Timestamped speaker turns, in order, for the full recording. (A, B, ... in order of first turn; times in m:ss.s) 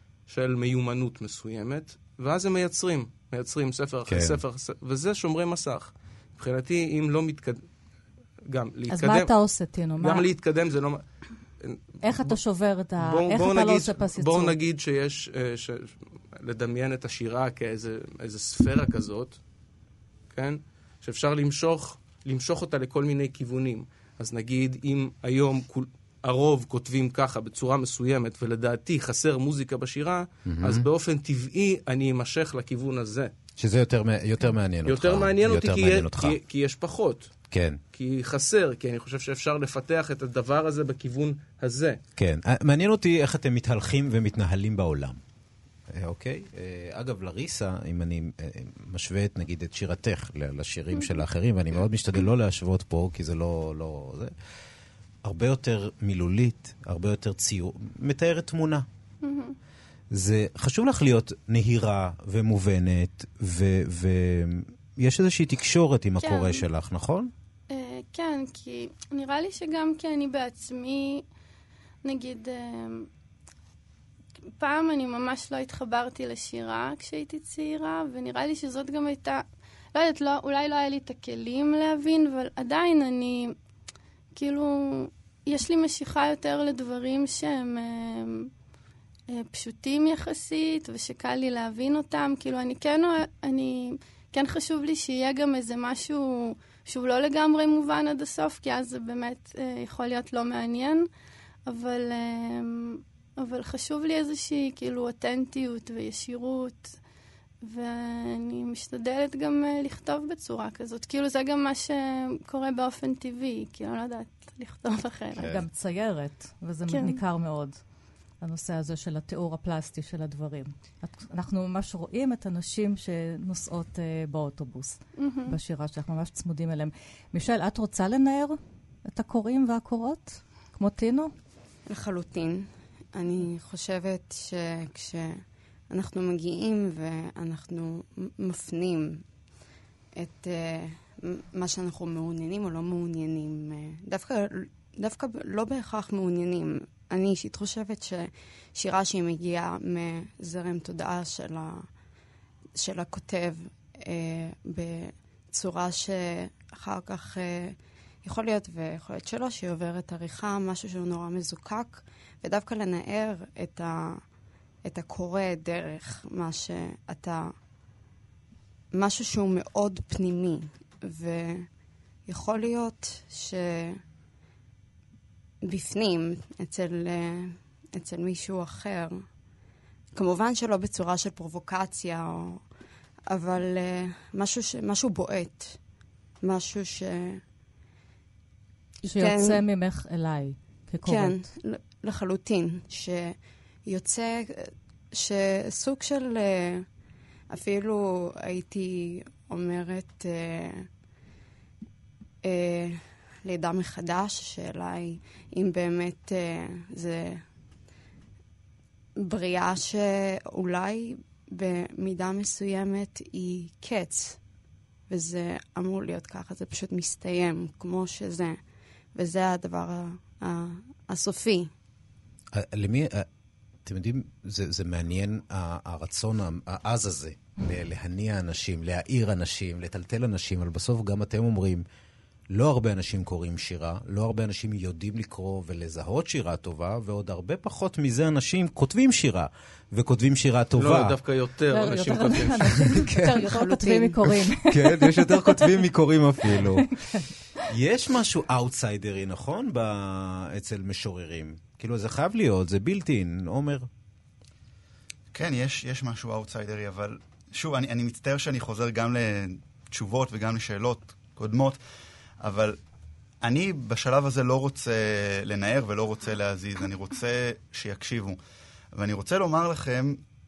0:00.3-0:07.6 A
0:04.1-0:04.4 B
0:08.5-0:09.3 A
0:08.9-0:10.3 C
0:10.0-0:11.0 A
0:11.6-0:12.4 A
0:12.0-0:14.5 C
0:13.0-0:19.4 A
0:20.3-0:33.3 A
0:30.4-0:30.8 B
0:33.6-0:36.4 B
0:34.8-0:37.4 A
0:37.5-0:37.8 B
0:37.9-0:42.0 A
0:42.2-0:45.2 B
0:45.9-0:54.3 B
0:55.2-0:58.8 B
0:59.2-0:59.6 D
1:00.1-1:07.3 B
1:06.2-1:06.7 D
1:07.7-1:11.2 D
1:12.0-1:13.1 D
1:14.6-1:23.5 D
1:24.3-1:28.5 D
1:29.3-1:41.1 D
1:41.7-1:46.9 D
1:47.6-1:55.5 D
1:55.4-1:55.6 B
1:55.4-1:57.8 C
1:56.9-1:57.2 D
1:58.4-2:11.3 C
2:05.2-2:05.5 D
2:11.8-2:19.2 E
2:20.2-2:31.9 E
2:32.8-2:44.2 E
2:44.8-2:47.5 E
2:48.9-2:51.7 E
2:52.2-2:54.0 E
2:55.6-2:59.2 E
3:00.1-3:02.6 E
3:03.3-3:05.8 E
3:06.4-3:07.4 E
3:09.0-3:09.6 E
3:09.1-3:11.4 C
3:11.0-3:16.9 E
3:17.5-3:20.9 E
3:22.4-3:27.4 E
3:29.2-3:34.4 E
3:35.1-3:38.6 E
3:39.1-3:41.7 E
3:42.5-3:43.3 B
3:43.8-3:51.8 B
3:52.5-4:01.2 B
4:00.8-4:03.0 A
4:01.7-4:05.8 C
4:03.0-4:03.2 B
4:03.4-4:04.3 E
4:04.6-4:06.9 B
4:06.5-4:07.3 C
4:07.7-4:13.9 B
4:15.3-4:21.8 F
4:22.4-4:22.8 F
4:23.4-4:28.4 F
4:28.9-4:30.2 F